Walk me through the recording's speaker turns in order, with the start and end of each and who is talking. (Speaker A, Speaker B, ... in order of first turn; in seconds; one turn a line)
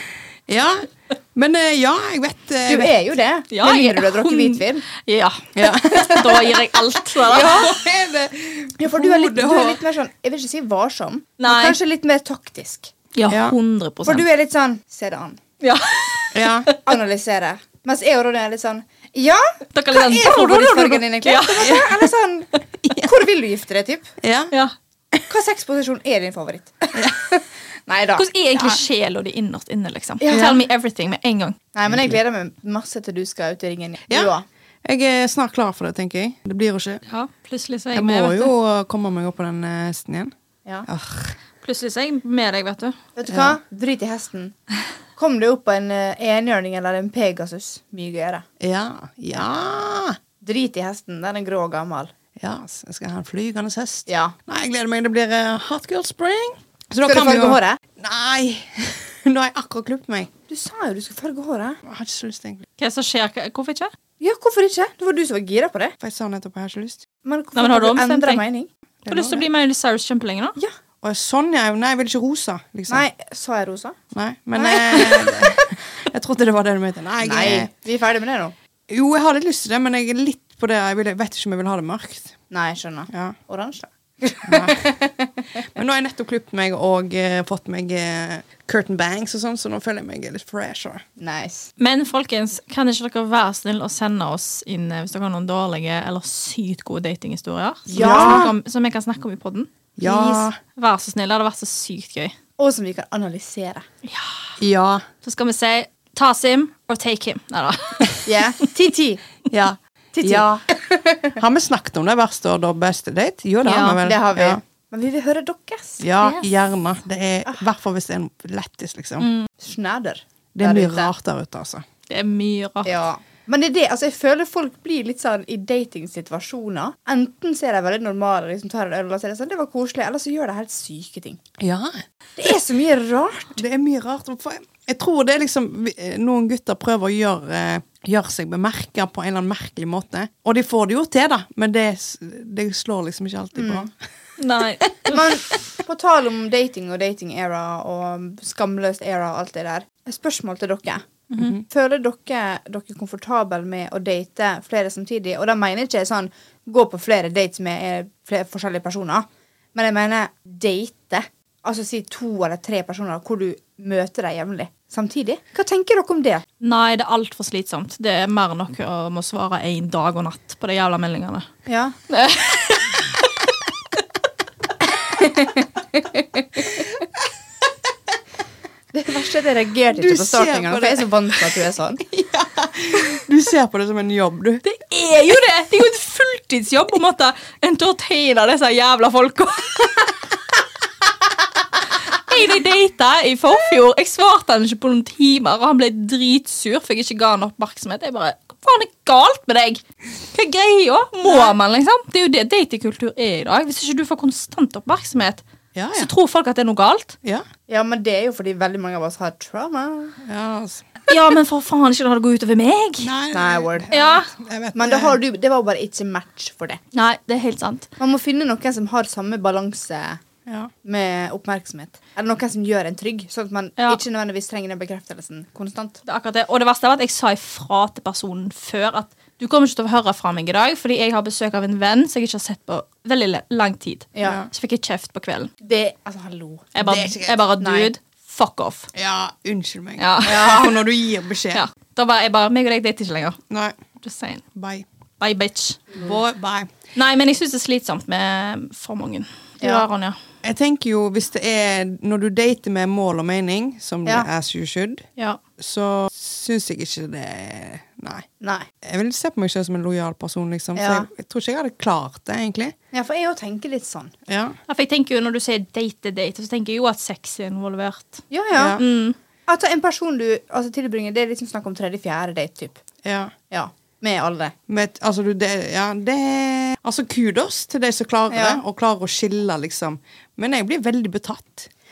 Speaker A: 0.5-2.9
Speaker B: 2.7-4.8
Speaker C: 3.5-7.8
Speaker A: 5.5-6.6
Speaker B: 6.0-6.4
Speaker B: 7.3-7.8
Speaker A: 7.3-9.8
Speaker B: 8.8-12.9
Speaker C: 11.4-11.8
Speaker C: 13.2-14.3
Speaker A: 13.3-13.6
Speaker B: 14.1-15.4
Speaker C: 15.6-16.8
Speaker A: 16.3-16.7
Speaker B: 16.8-24.1
Speaker C: 19.8-21.9
Speaker A: 20.0-20.5
Speaker A: 22.8-23.1
Speaker A: 24.2-24.5
Speaker B: 25.3-28.3
Speaker C: 28.2-31.6
Speaker B: 30.2-30.6
Speaker B: 31.7-34.5
Speaker A: 31.9-32.2
Speaker A: 34.9-37.0
Speaker C: 37.1-38.5
Speaker A: 37.9-40.3
Speaker A: 40.9-41.4
Speaker C: 41.6-43.0
Speaker B: 43.2-44.5
Speaker A: 43.3-43.6
Speaker B: 45.2-48.5
Speaker A: 48.6-50.2
Speaker B: 50.4-52.1
Speaker A: 52.4-60.3
Speaker B: 54.1-54.4
Speaker B: 57.0-57.8
Speaker B: 60.5-61.8
Speaker A: 61.9-62.7
Speaker C: 62.8-63.9
Speaker B: 64.2-65.9
Speaker A: 66.0-67.0
Speaker B: 67.2-68.7
Speaker C: 67.5-68.4
Speaker A: 69.0-69.5
Speaker C: 69.1-70.6
Speaker A: 71.0-73.0
Speaker B: 72.9-74.0
Speaker A: 74.1-77.7
Speaker B: 74.5-75.7
Speaker B: 77.2-78.5
Speaker A: 78.9-82.3
Speaker B: 82.5-85.6
Speaker A: 83.1-83.4
Speaker A: 84.4-84.8
Speaker A: 85.8-91.0
Speaker B: 91.2-91.7
Speaker C: 91.8-99.7
Speaker A: 97.9-98.5
Speaker B: 97.9-98.5
Speaker A: 100.0-100.6
Speaker B: 100.0-100.5
Speaker C: 100.8-102.3
Speaker B: 102.6-103.9
Speaker C: 104.0-104.6
Speaker A: 104.6-105.0
Speaker C: 105.2-108.5
Speaker B: 108.2-109.2
Speaker A: 109.5-110.7
Speaker B: 110.1-111.4
Speaker A: 111.4-114.6
Speaker C: 113.6-114.0
Speaker B: 114.0-116.0
Speaker A: 116.0-119.3
Speaker C: 116.2-116.5
Speaker C: 119.2-119.5
Speaker B: 119.6-121.1
Speaker A: 120.5-121.8
Speaker C: 122.1-122.9
Speaker B: 122.8-131.4
Speaker A: 131.6-132.0
Speaker B: 132.4-133.6
Speaker A: 133.6-143.9
Speaker B: 143.6-143.9
Speaker C: 144.4-145.2
Speaker B: 145.1-166.4
Speaker A: 151.4-151.6
Speaker C: 166.6-171.5
Speaker B: 171.7-172.0
Speaker C: 172.1-173.2
Speaker B: 175.2-176.8
Speaker B: 178.9-182.0
Speaker A: 179.9-184.6
Speaker C: 184.6-190.1
Speaker C: 192.1-205.4
Speaker B: 201.3-201.5
Speaker A: 205.8-206.1
Speaker C: 205.9-207.2
Speaker B: 207.7-210.2
Speaker A: 210.2-210.9
Speaker C: 211.1-213.1
Speaker A: 213.0-215.2
Speaker B: 213.3-214.1
Speaker C: 213.9-214.3
Speaker B: 214.8-216.8
Speaker C: 216.9-217.9
Speaker B: 218.0-220.2
Speaker A: 220.5-220.7
Speaker B: 220.8-226.0
Speaker C: 226.1-235.5
Speaker B: 234.2-234.4
Speaker A: 234.2-234.5
Speaker B: 235.6-236.7
Speaker C: 236.8-238.9
Speaker A: 236.8-237.4
Speaker B: 237.6-237.9
Speaker A: 238.9-241.6
Speaker C: 240.0-240.8
Speaker C: 241.5-243.4
Speaker A: 243.5-243.8
Speaker C: 244.0-244.4
Speaker A: 244.5-244.9
Speaker C: 245.2-245.9
Speaker A: 246.0-246.7
Speaker C: 246.9-250.2
Speaker A: 250.4-255.1
Speaker A: 255.6-258.3
Speaker B: 258.4-258.7
Speaker A: 258.8-262.7
Speaker B: 260.8-261.1
Speaker B: 262.9-264.1
Speaker A: 264.3-264.6
Speaker C: 264.7-269.2
Speaker B: 268.3-268.8
Speaker A: 268.5-268.8
Speaker B: 269.5-272.8
Speaker A: 273.0-273.3
Speaker B: 273.5-274.6
Speaker A: 274.7-281.7
Speaker B: 278.3-278.6